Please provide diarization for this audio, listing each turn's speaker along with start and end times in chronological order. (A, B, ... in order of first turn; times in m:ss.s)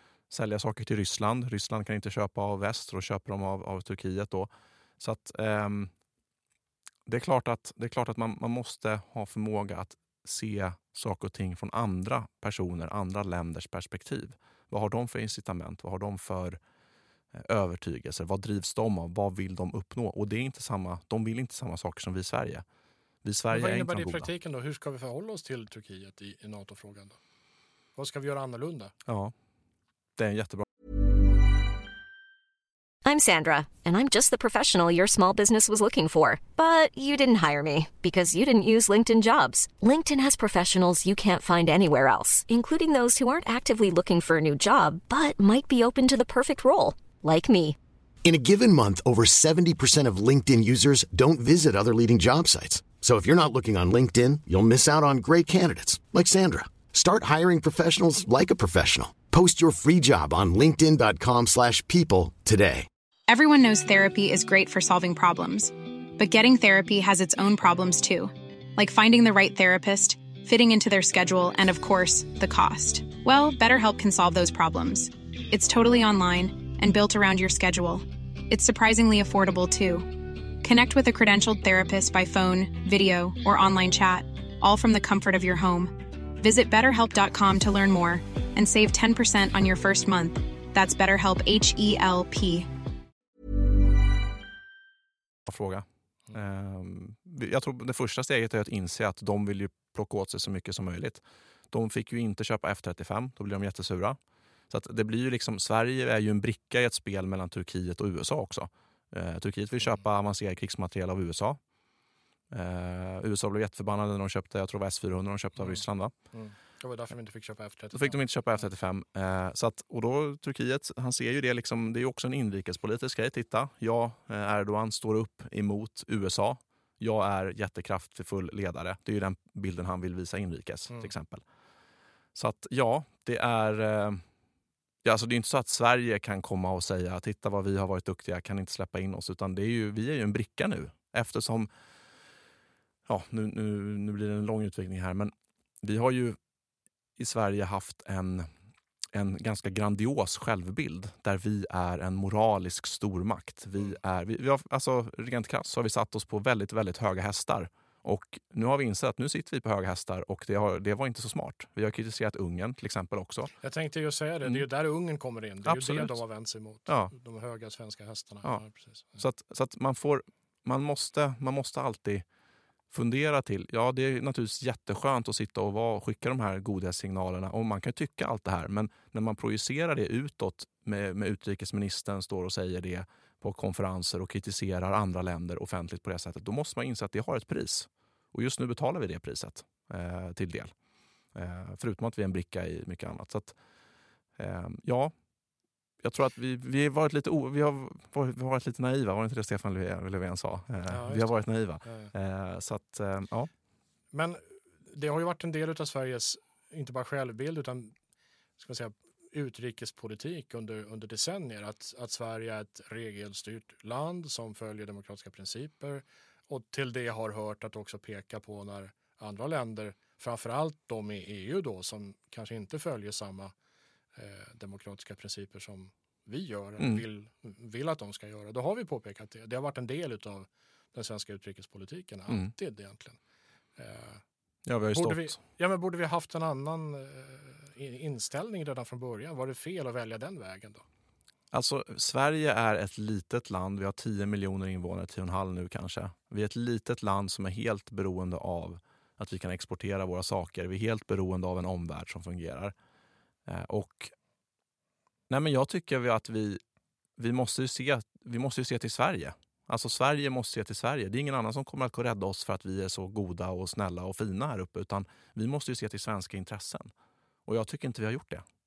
0:00.3-0:05.9 A
0:07.1-0:16.6 A
0:17.3-0:22.6 A
0:23.2-0:24.3 A
0:23.5-0:27.2 B
0:28.0-0:28.9 B
0:29.1-0:29.3 A
0:30.2-0:30.6 A
0:33.0-0:47.8 C
0:48.2-1:02.9 D
1:03.3-1:32.7 E
1:35.5-1:44.2 A
1:44.7-1:51.6 A
1:52.5-1:56.1 A
1:55.6-1:58.2 B
1:57.9-2:11.4 A
2:12.3-2:14.2 A
2:15.0-2:21.7 A
2:23.1-2:26.4 A
2:27.2-2:28.5 A
2:29.1-2:43.5 A
2:43.6-2:49.2 B
2:45.6-2:46.2 A
2:46.9-2:47.1 A
2:49.2-2:52.2 A
2:52.9-3:10.7 A
3:11.4-3:13.6 A
3:14.4-3:15.1 A
3:16.0-3:23.5 A
3:20.9-3:22.1 B
3:24.1-3:27.9 B
3:28.6-3:43.5 B
3:44.2-3:53.2 B
3:46.8-3:47.0 A
3:53.8-3:54.2 B
3:54.7-3:55.4 A
3:54.9-4:00.8 B
4:01.5-4:12.7 A
4:13.5-4:14.1 A
4:15.3-4:16.6 A
4:17.2-4:26.9 A
4:27.5-4:28.4 A